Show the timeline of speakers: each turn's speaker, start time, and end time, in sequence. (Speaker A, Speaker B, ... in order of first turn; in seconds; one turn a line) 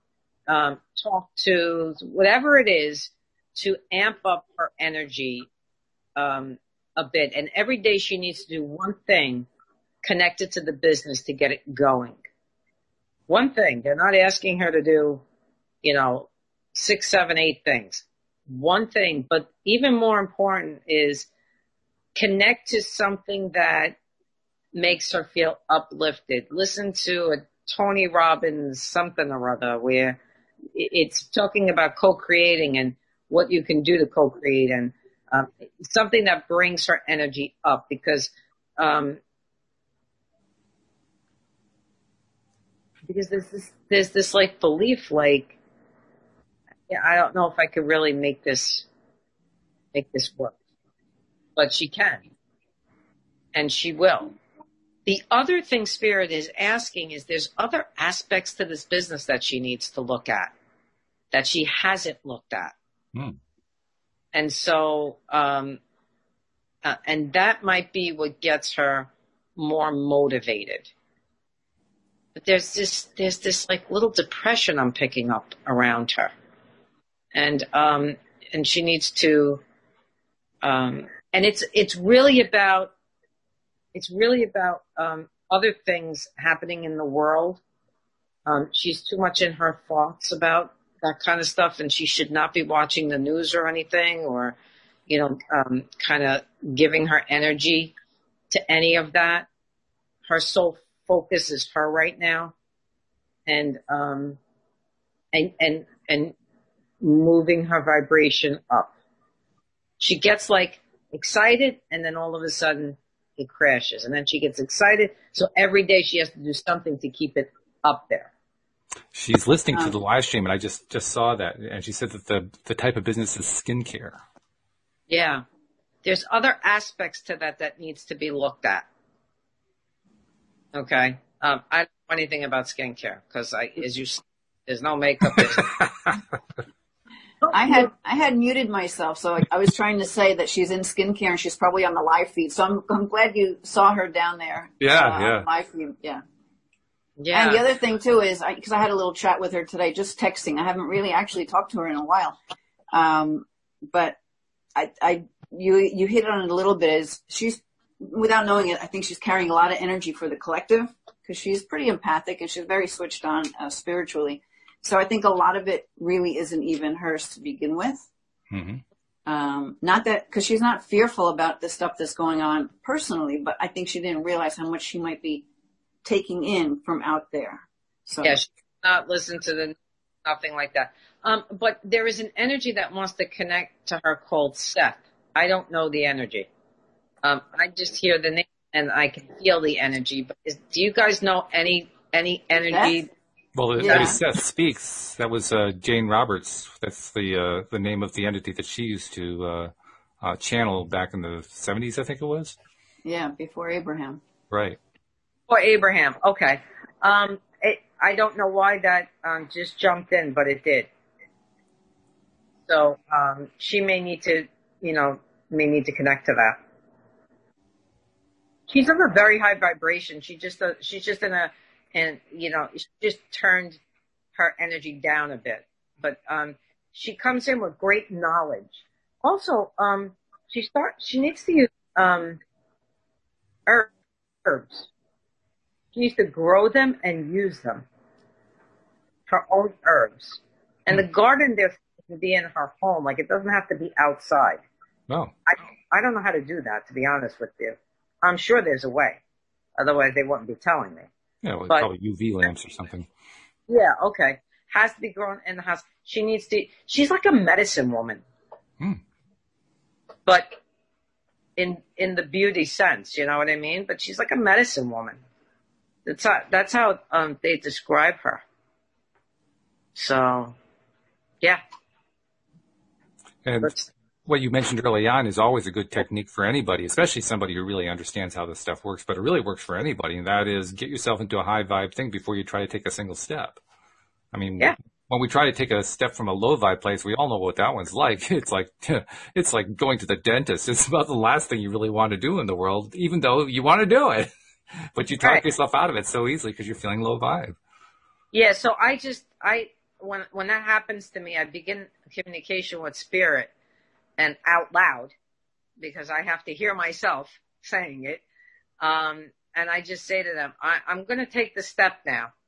Speaker A: 0.5-5.5
Speaker A: 6.2-9.5
Speaker A: 10.0-12.2
Speaker A: 13.3-15.2
Speaker A: 15.8-21.3
Speaker A: 22.1-24.0
Speaker A: 24.8-30.2
Speaker A: 30.7-39.2
Speaker A: 43.1-45.6
Speaker A: 46.9-48.9
Speaker A: 49.9-50.5
Speaker A: 51.6-52.2
Speaker A: 53.5-54.4
Speaker A: 55.1-60.5
Speaker A: 61.3-62.8
Speaker A: 64.3-65.8
Speaker A: 66.8-70.9
Speaker A: 72.4-76.3
Speaker A: 77.3-79.6
Speaker A: 80.6-82.9
Speaker A: 83.9-87.6
Speaker A: 88.5-94.6
Speaker A: 95.1-98.0
Speaker A: 98.5-99.5
Speaker A: 100.3-102.5
Speaker A: 103.5-104.4
Speaker A: 105.3-106.4
Speaker A: 107.0-108.9
Speaker A: 110.0-118.3
Speaker B: 119.1-124.2
Speaker A: 125.1-125.4
Speaker A: 126.0-128.9
Speaker A: 130.7-135.7
Speaker B: 135.3-136.2
Speaker C: 137.5-146.2
Speaker B: 144.8-145.5
Speaker A: 147.2-147.6
Speaker C: 147.3-152.4
Speaker C: 152.9-154.2
Speaker C: 154.8-168.1
Speaker B: 168.5-168.8
Speaker C: 169.3-175.5
Speaker C: 176.0-178.4
Speaker A: 178.2-186.5
Speaker A: 187.2-193.1
Speaker C: 192.7-192.9
Speaker B: 193.6-202.6
Speaker C: 193.8-194.2
Speaker A: 193.9-194.1
Speaker C: 203.0-204.2
Speaker B: 204.5-204.8
Speaker A: 205.5-210.9
Speaker A: 212.7-216.6
Speaker A: 218.7-223.8
Speaker A: 224.4-232.4
Speaker A: 234.4-234.9
Speaker A: 235.9-237.9
Speaker A: 239.3-244.6
Speaker A: 245.5-249.2
Speaker A: 249.8-251.1
Speaker B: 251.4-253.1
Speaker A: 253.7-258.2
Speaker A: 260.3-260.6
Speaker A: 261.6-265.2
Speaker A: 266.1-268.4
Speaker A: 270.0-270.6
Speaker B: 273.4-283.6
Speaker B: 284.3-294.3
Speaker B: 294.9-297.6
Speaker A: 298.3-303.5
Speaker A: 304.2-305.1
Speaker A: 305.8-308.2
Speaker A: 308.8-312.3